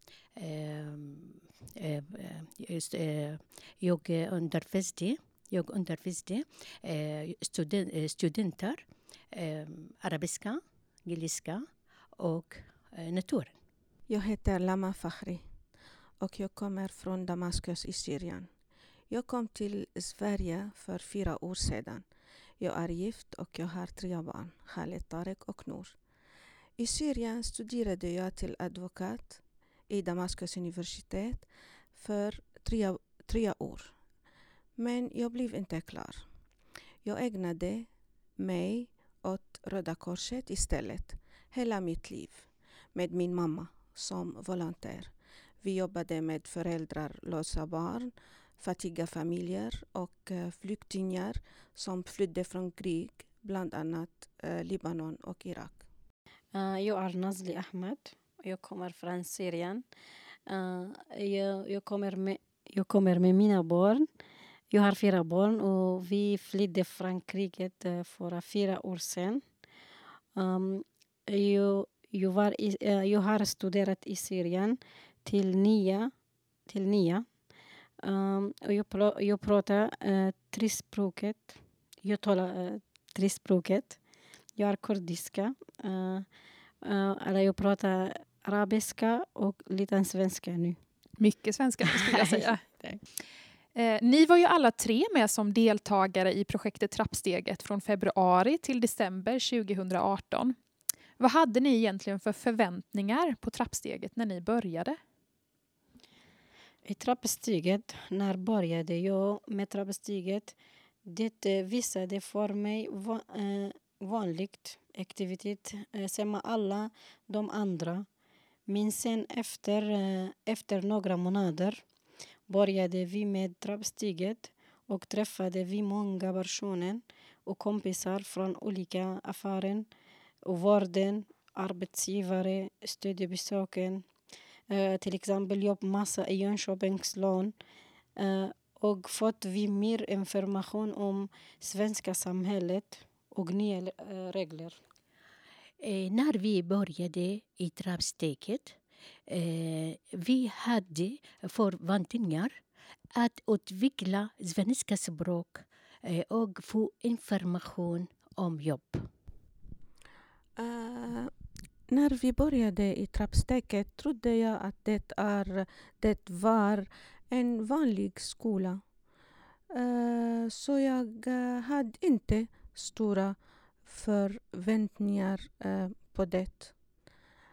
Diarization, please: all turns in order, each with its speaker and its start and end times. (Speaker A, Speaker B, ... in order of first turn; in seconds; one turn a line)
Speaker A: 0.4-11.6
Speaker A: 12.2-13.6
Speaker B: 14.1-15.4
Speaker B: 16.2-18.5
Speaker B: 19.1-22.1
Speaker B: 22.6-26.0
Speaker B: 26.8-34.0
Speaker B: 34.8-36.2
Speaker B: 37.0-55.8
Speaker C: 56.5-59.9
Speaker C: 60.5-64.1
Speaker C: 64.7-69.4
Speaker C: 70.3-76.1
Speaker C: 76.7-77.2
Speaker C: 78.0-84.0
Speaker C: 84.5-86.2
Speaker C: 86.8-90.8
Speaker D: 91.2-92.6
Speaker C: 91.8-92.5
Speaker D: 93.7-100.5
Speaker D: 101.2-105.0
Speaker C: 106.8-118.1
Speaker C: 118.7-121.8
Speaker C: 122.5-129.9
Speaker C: 130.4-134.0
Speaker C: 134.7-137.5
Speaker C: 138.2-144.8
Speaker A: 145.8-148.8
Speaker A: 149.3-152.6
Speaker A: 153.1-159.1
Speaker B: 160.6-161.3
Speaker B: 161.9-168.8
Speaker B: 169.7-176.7